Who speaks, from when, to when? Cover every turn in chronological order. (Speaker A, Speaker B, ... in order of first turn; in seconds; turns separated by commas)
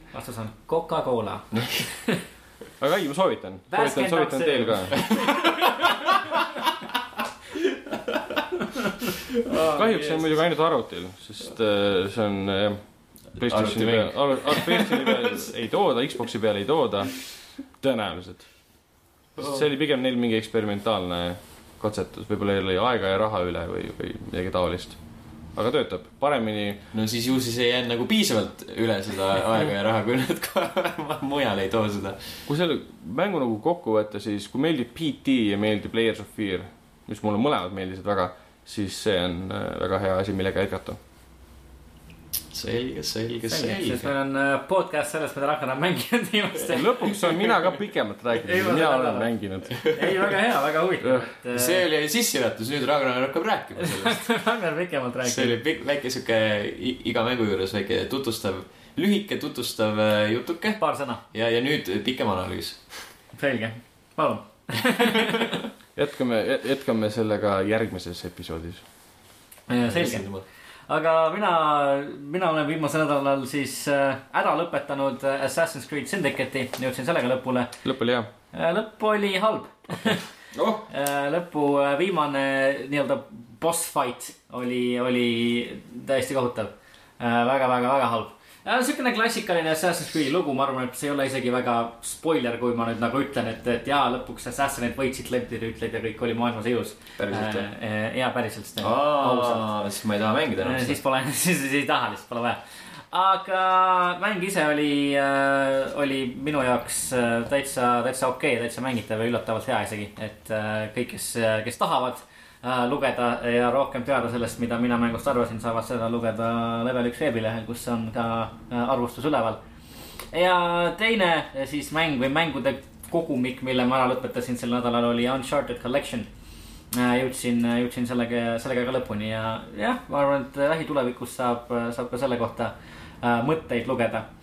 Speaker A: 0.1-2.2, Speaker B: 2.8-5.1, Speaker A: 3.7-5.9, Speaker C: 5.0-5.4, Speaker C: 9.4-10.2, Speaker B: 9.7-12.8, Speaker C: 13.4-15.4, Speaker B: 13.4-17.1, Speaker B: 17.8-18.5, Speaker B: 19.4-25.0, Speaker C: 19.4-19.6, Speaker B: 25.6-26.8, Speaker C: 26.9-32.4, Speaker B: 32.5-41.0, Speaker C: 42.5-44.1, Speaker A: 43.4-47.4, Speaker B: 46.7-49.8, Speaker A: 48.3-51.8, Speaker C: 49.8-50.3, Speaker B: 51.0-51.3, Speaker C: 51.5-54.3, Speaker A: 53.8-55.6, Speaker C: 55.2-63.1, Speaker A: 60.8-61.2, Speaker A: 63.4-65.6, Speaker B: 66.0-68.8, Speaker A: 69.7-70.3, Speaker C: 69.8-70.5, Speaker A: 70.9-77.7, Speaker B: 77.8-78.3, Speaker A: 78.5-80.2, Speaker B: 80.5-80.9, Speaker A: 80.9-99.7, Speaker C: 97.2-97.7, Speaker C: 98.8-101.0, Speaker A: 100.6-102.6, Speaker A: 103.1-119.6, Speaker A: 120.3-126.3, Speaker A: 126.9-134.3